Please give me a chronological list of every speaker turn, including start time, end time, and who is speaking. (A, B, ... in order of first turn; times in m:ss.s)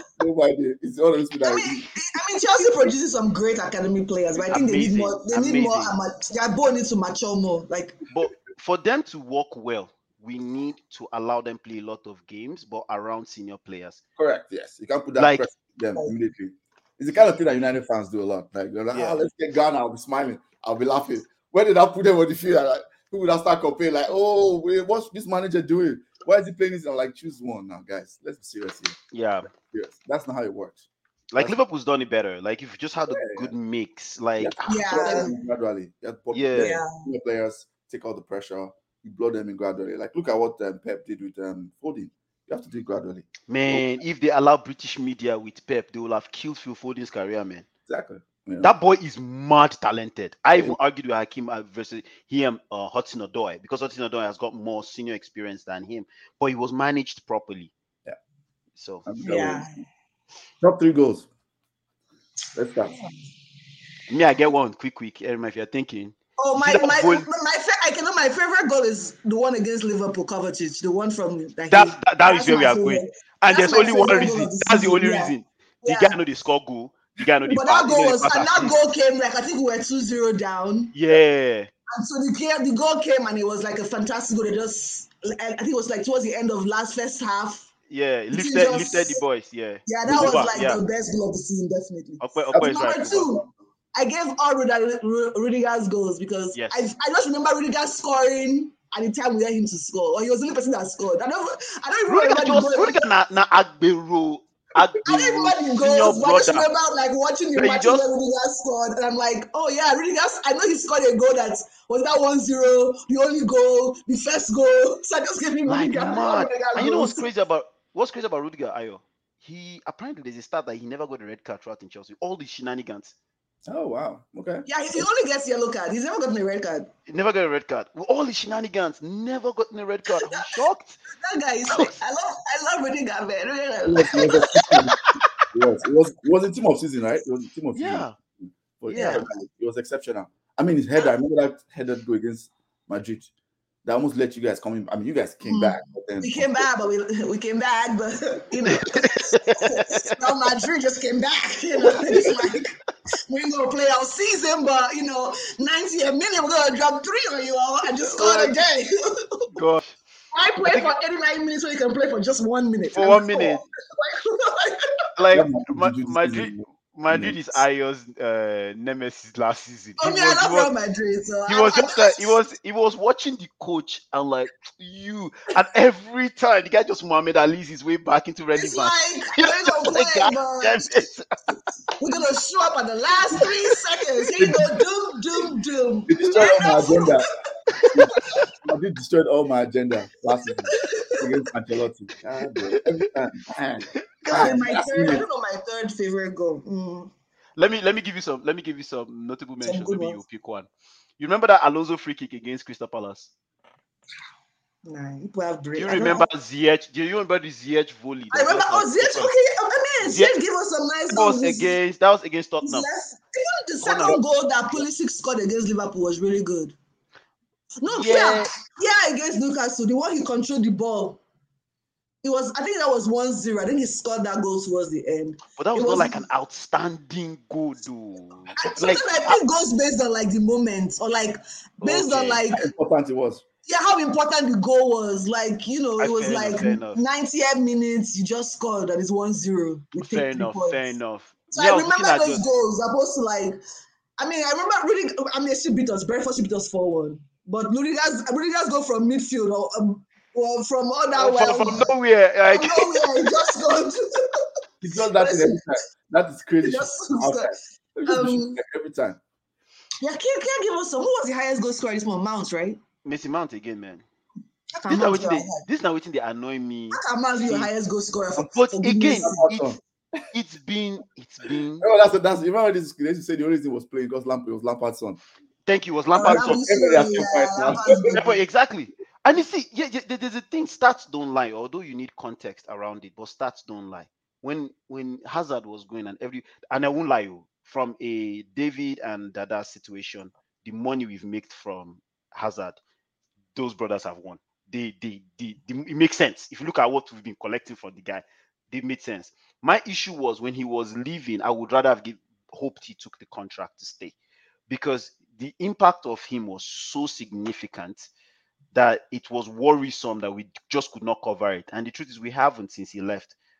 0:00.2-0:01.9 A
0:01.4-0:08.0 B
0:04.5-0:05.9 C
0:08.1-0:14.0 C
0:14.2-0:29.0 A
0:15.2-0:15.4 C
0:18.9-0:19.2 C
0:29.1-0:29.5 C
0:29.5-0:30.8 A
0:31.3-0:35.3 C
0:33.1-0:33.5 A
0:34.4-0:43.9 A
0:34.7-0:35.4 B
0:36.3-0:36.8 C
0:36.6-0:37.0 B
0:43.5-0:47.7 C
0:47.9-0:48.7 A
0:48.6-0:57.7 C
0:58.8-0:59.1 C
0:59.0-0:59.7 A
0:59.2-0:59.7 B
1:00.6-1:01.3 A
1:02.6-1:03.0 A
1:04.1-1:07.3 C
1:06.4-1:16.2 B
1:11.7-1:18.8 C
1:17.5-1:21.0 B
1:20.9-1:21.7 C
1:21.9-1:27.7 B
1:27.9-1:30.8 C
1:28.3-1:29.2 B
1:29.9-1:43.0 B
1:30.1-1:30.4 A
1:32.2-1:33.4 C
1:42.1-1:46.7 C
1:45.1-1:57.2 B
1:47.6-1:48.0 C
1:55.7-2:03.1 C
2:03.6-2:05.0 A
2:04.7-2:06.9 B
2:07.1-2:11.0 C
2:10.3-2:10.6 B
2:11.2-2:14.7 B
2:11.7-2:11.9 C
2:13.9-2:15.0 A
2:15.5-2:23.3 A
2:17.8-2:18.2 C
2:18.9-2:19.2 C
2:18.9-2:19.2 B
2:23.8-2:26.5 A
2:25.4-2:32.7 B
2:28.6-2:30.2 C
2:33.3-2:39.5 B
2:38.0-2:38.6 C
2:39.5-2:40.0 C
2:40.3-2:44.9 B
2:40.6-2:40.9 C
2:42.9-2:43.6 C
2:45.2-2:50.7 C
2:45.3-2:47.4 A
2:50.0-2:52.3 B
2:51.5-3:01.3 C
2:58.6-3:00.9 B
3:02.0-3:07.2 B
3:04.4-3:04.7 A
3:06.1-3:07.2 A
3:07.7-3:08.5 C
3:07.9-3:15.2 A
3:10.7-3:11.3 B
3:12.7-3:13.1 C
3:14.2-3:14.5 C
3:14.2-3:17.1 B
3:17.6-3:20.7 C
3:19.6-3:20.2 B
3:21.2-3:23.3 C
3:24.8-3:26.2 B
3:25.8-3:29.3 C
3:28.3-3:31.8 B
3:30.0-3:30.4 C
3:31.1-3:32.9 C
3:32.6-3:36.8 B
3:33.8-3:34.2 C
3:37.8-3:41.2 B
3:37.9-3:38.5 C
3:42.2-3:46.2 B
3:45.6-3:49.4 C
3:48.6-3:52.7 B
3:51.8-3:52.4 C
3:52.5-3:53.4 A
3:53.7-4:00.8 B
3:56.0-3:57.0 C
4:00.0-4:02.4 C
4:01.5-4:03.6 B
4:04.2-4:11.9 B
4:11.2-4:13.4 C
4:12.5-4:14.4 B
4:14.8-4:19.2 A
4:15.1-4:15.7 B
4:16.6-4:17.6 B
4:18.1-4:18.6 B
4:20.0-4:22.8 B
4:23.0-4:24.0 C
4:24.8-4:25.6 B
4:24.9-4:27.7 C
4:26.9-4:29.5 B
4:28.4-4:29.8 C
4:29.2-4:30.2 A
4:30.3-4:31.9 C
4:31.8-4:35.2 A
4:35.7-4:36.7 C
4:36.2-4:38.4 B
4:36.2-4:38.2 A
4:37.7-4:52.8 C
4:53.6-5:04.2 C
5:04.7-5:08.1 C
5:08.7-5:13.4 C